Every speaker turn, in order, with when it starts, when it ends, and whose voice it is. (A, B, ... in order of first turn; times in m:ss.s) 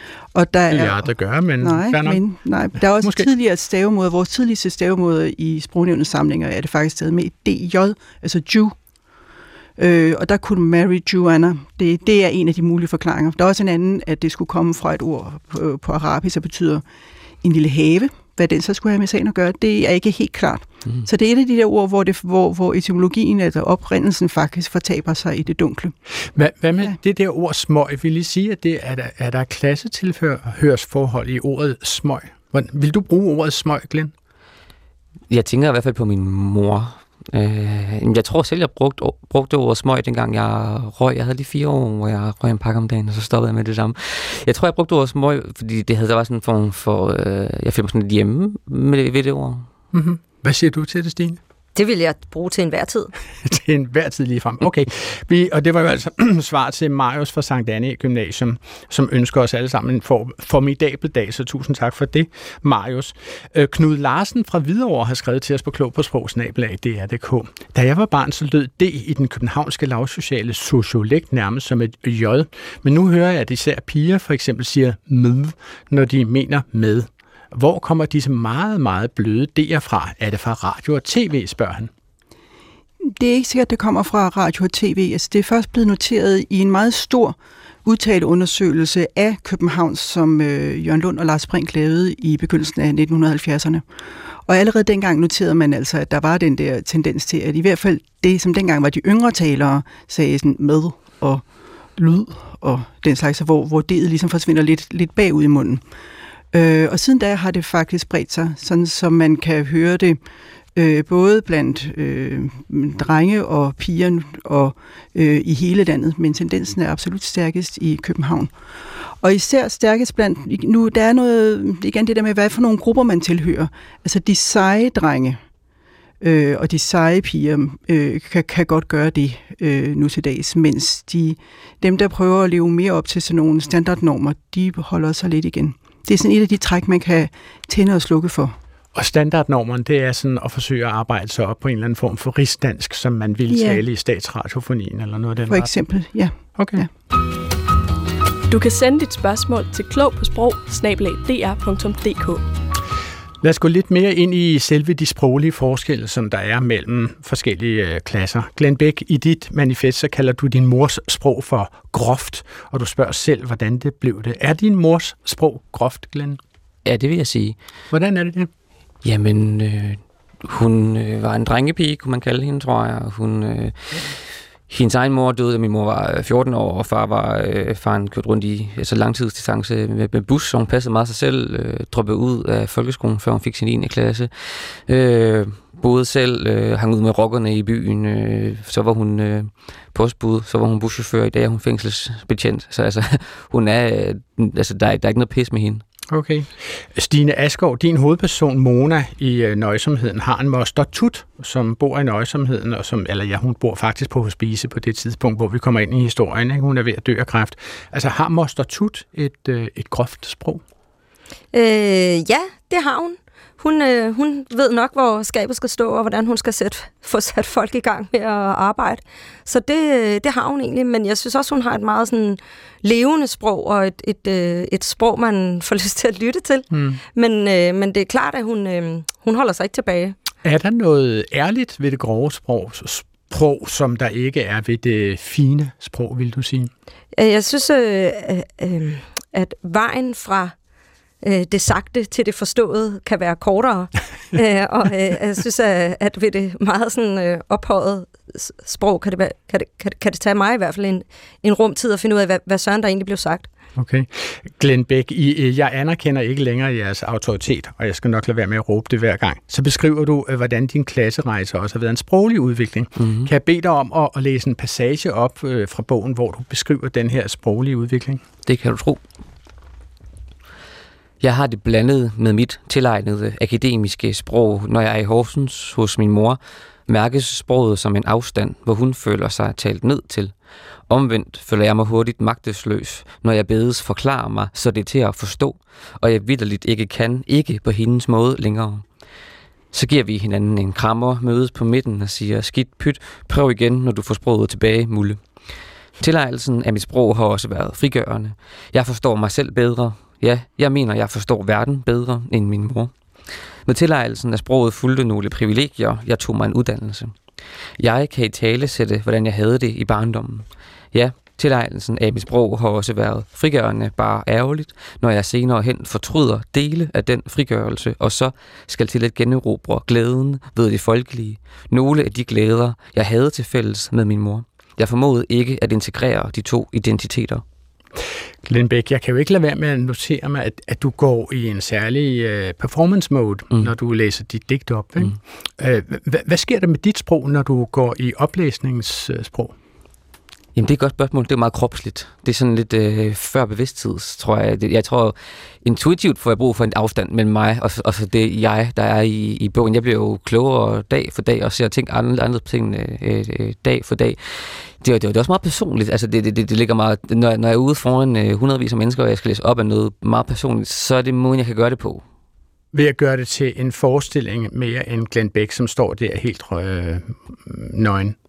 0:00.3-0:01.1 A
0:00.7-0:02.2 B
0:01.6-0:08.8 A
0:02.9-0:03.3 B
0:09.8-0:16.8 A
0:17.4-0:26.0 A
0:26.3-0:34.1 B
0:35.3-0:49.7 C
0:49.9-0:51.4 B
0:51.8-0:53.1 D
0:53.4-1:21.9 B
1:23.1-1:33.8 A
1:34.5-1:41.4 A
1:42.0-1:45.8 A
1:46.5-1:50.2 A
1:50.8-1:58.5 A
1:59.2-2:05.4 A
2:06.2-2:18.6 A
2:19.0-2:25.7 B
2:23.5-2:23.8 A
2:25.5-2:26.9 A
2:26.6-2:26.8 B
2:28.5-2:32.4 E
2:33.4-2:46.4 B
2:46.8-2:47.6 C
2:47.9-2:48.5 B
2:49.0-2:54.2 C
2:54.7-3:15.8 C
3:16.1-3:30.6 B
3:31.5-3:50.2 D
3:46.7-3:47.0 B
3:50.4-3:56.7 B
3:57.2-4:00.5 D
4:01.2-4:13.5 D
4:13.8-4:28.2 B
4:23.0-4:23.3 C
4:28.5-4:29.0 C
4:31.2-4:40.3 C
4:40.9-4:48.9 C
4:49.7-4:55.2 C
4:56.0-5:07.2 C
5:07.8-5:27.4 C
5:28.4-5:39.6 B
5:40.6-6:02.0 C
6:02.7-6:08.2 B